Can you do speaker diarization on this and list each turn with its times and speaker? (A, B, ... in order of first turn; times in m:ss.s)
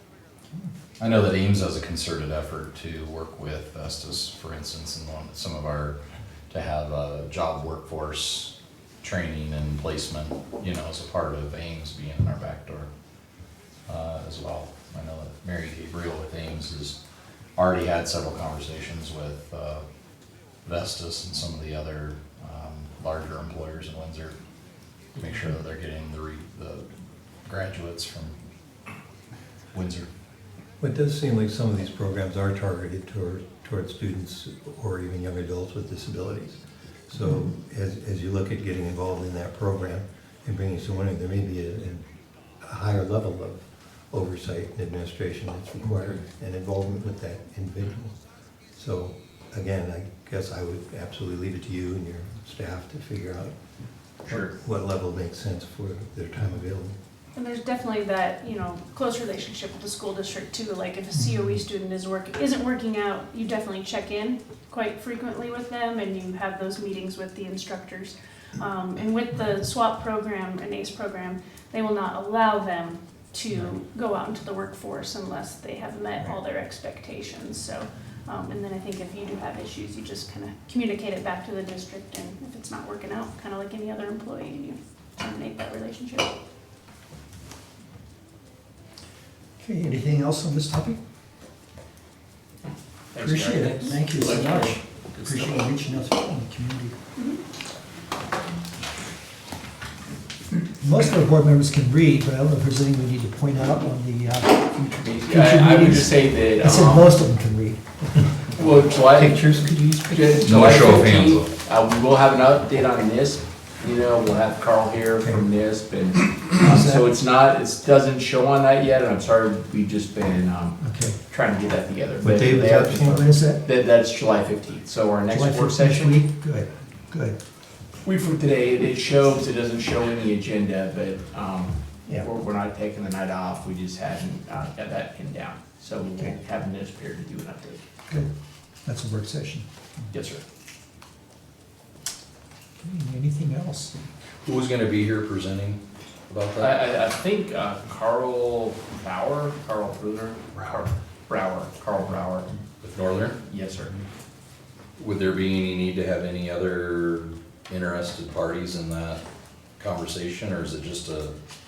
0:01.0-0:06.0 A
0:06.5-0:12.9 A
0:13.9-0:17.0 A
0:17.6-0:19.8 A
0:20.6-0:24.3 A
0:25.2-0:26.9 A
0:27.5-0:28.3 A
0:29.7-0:30.1 A
0:30.8-0:42.0 B
0:42.6-0:48.1 B
0:48.7-0:53.5 B
0:54.3-0:54.5 C
0:54.3-0:57.0 B
0:57.3-1:26.3 D
1:29.6-1:31.0 E
1:33.2-1:35.6 C
1:33.2-1:37.0 E
1:40.8-1:48.5 E
1:44.8-1:47.1 C
1:48.6-1:49.4 C
1:49.0-1:51.1 B
1:50.1-2:00.8 C
1:50.4-1:51.5 A
1:56.5-1:57.1 E
2:00.8-2:01.2 E
2:01.3-2:06.2 C
2:02.2-2:03.3 B
2:03.2-2:03.6 E
2:05.3-2:07.4 E
2:08.0-2:17.8 C
2:18.8-2:20.1 E
2:20.1-2:20.4 C
2:22.8-2:24.0 E
2:24.4-2:26.8 A
2:26.6-2:32.5 C
2:32.8-2:33.4 A
2:33.5-2:34.0 C
2:35.0-2:39.2 A
2:39.8-2:41.3 A